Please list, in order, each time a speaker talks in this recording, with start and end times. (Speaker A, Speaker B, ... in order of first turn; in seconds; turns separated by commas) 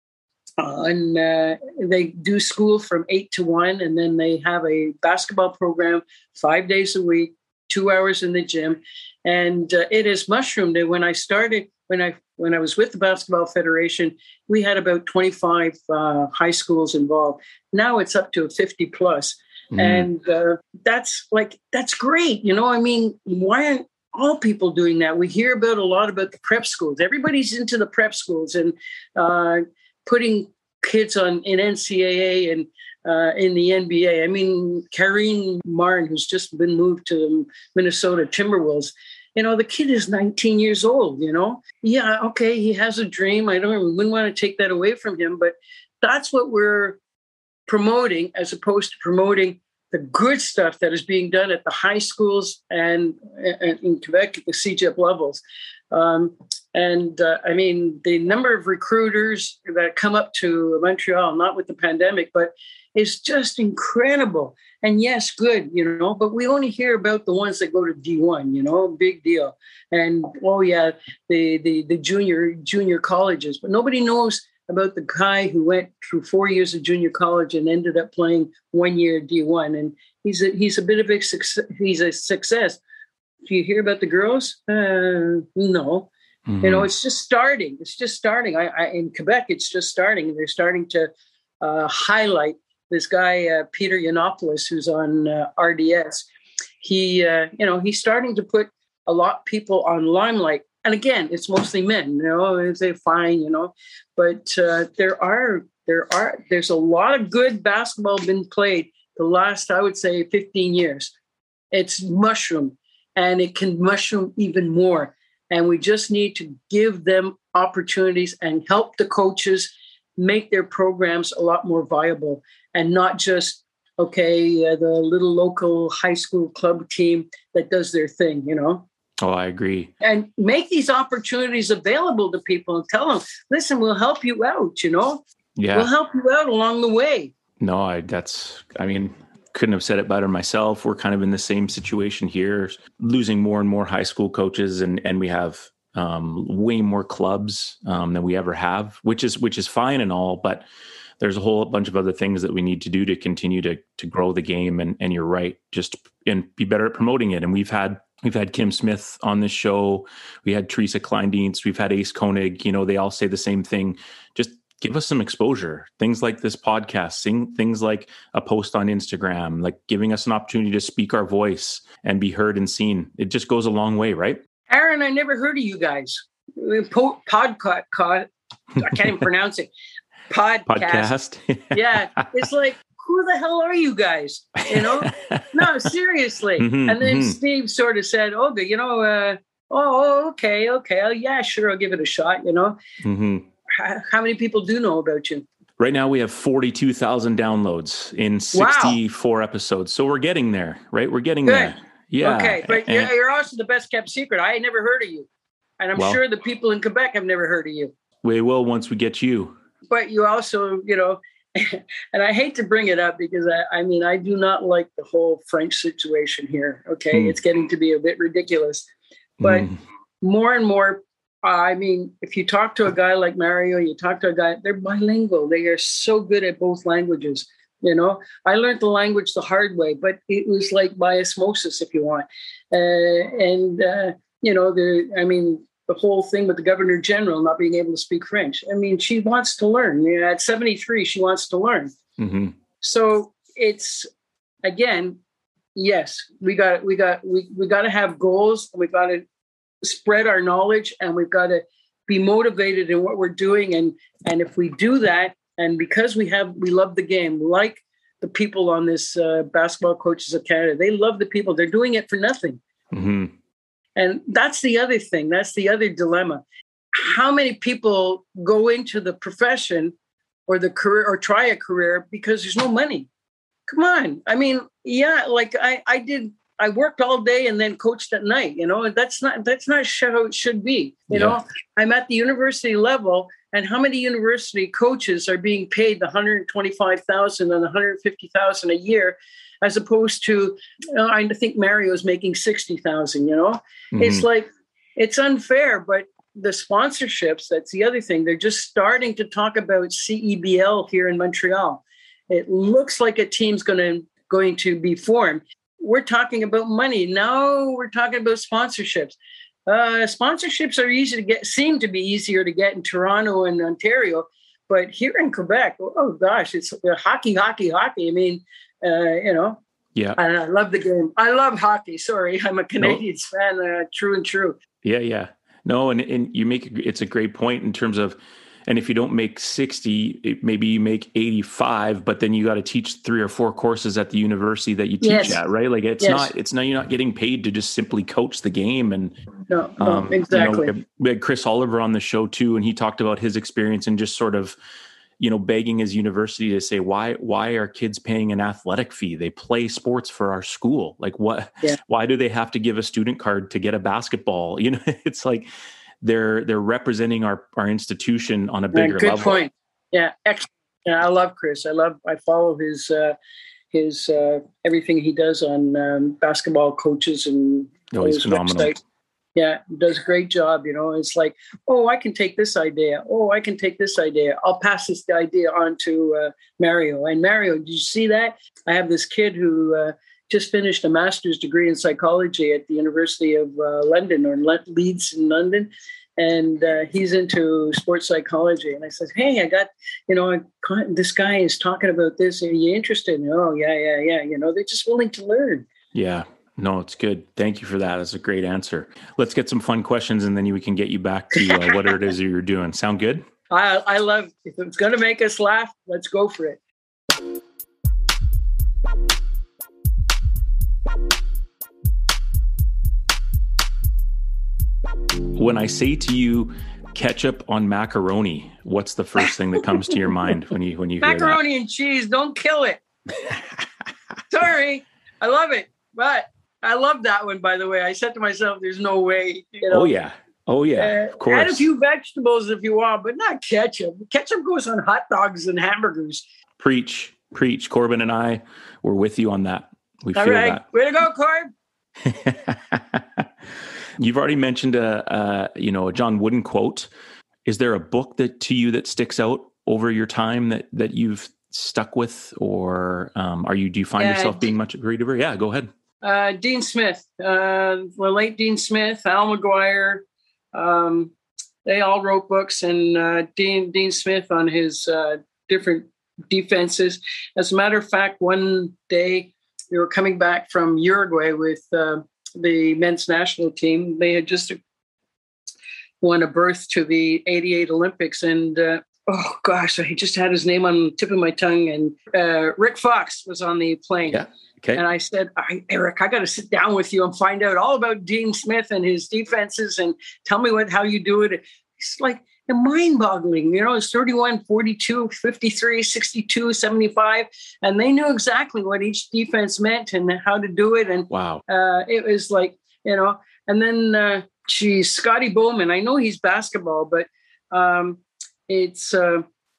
Speaker A: 0.6-47.0, Speaker B: 19.7-20.1, Speaker A: 47.7-82.8, Speaker A: 83.5-86.1, Speaker B: 86.5-86.9, Speaker A: 86.6-96.3, Speaker A: 96.8-111.1, Speaker A: 111.7-128.8, Speaker B: 129.2-129.9, Speaker A: 130.0-137.3, Speaker B: 135.6-135.9, Speaker B: 137.6-150.7, Speaker B: 151.2-174.4, Speaker A: 174.7-179.7, Speaker A: 180.3-181.1, Speaker B: 180.7-182.2, Speaker A: 181.7-192.8, Speaker B: 184.7-185.7, Speaker B: 186.6-187.4, Speaker B: 193.0-193.4, Speaker A: 193.7-195.4, Speaker B: 195.8-203.1, Speaker A: 198.5-199.0, Speaker A: 201.4-205.3, Speaker A: 205.8-207.9, Speaker B: 205.9-206.2, Speaker B: 208.2-209.5, Speaker A: 209.9-218.9, Speaker B: 219.4-219.8, Speaker A: 219.4-219.7, Speaker A: 220.2-241.9, Speaker B: 242.2-242.5, Speaker A: 242.8-244.1, Speaker A: 244.6-245.2, Speaker A: 245.7-249.2, Speaker A: 249.8-262.6, Speaker B: 262.9-263.3, Speaker A: 263.9-266.4, Speaker A: 266.9-269.9, Speaker A: 270.5-273.1, Speaker A: 273.7-309.1, Speaker B: 281.1-281.4, Speaker B: 293.9-294.2, Speaker A: 309.7-319.6, Speaker A: 320.2-324.6, Speaker B: 324.8-339.1, Speaker A: 335.0-335.4, Speaker A: 336.0-336.3, Speaker A: 339.5-340.7, Speaker B: 339.8-344.6, Speaker B: 345.2-355.5, Speaker B: 356.0-359.4, Speaker A: 358.7-363.1, Speaker A: 363.7-368.8, Speaker B: 367.9-368.7, Speaker A: 369.4-395.6, Speaker B: 395.9-403.2, Speaker A: 403.5-406.6, Speaker B: 415.3-421.4, Speaker A: 421.0-422.8, Speaker A: 424.3-429.9, Speaker B: 429.7-431.7, Speaker A: 430.8-436.2, Speaker B: 436.6-440.6, Speaker A: 440.1-441.5, Speaker B: 442.0-443.2, Speaker B: 444.0-446.9, Speaker B: 447.4-455.7, Speaker A: 453.9-454.4, Speaker A: 456.0-460.0, Speaker A: 460.5-461.1, Speaker A: 461.6-474.6, Speaker A: 476.0-484.2, Speaker B: 484.1-484.8, Speaker A: 484.7-509.2, Speaker B: 501.1-501.4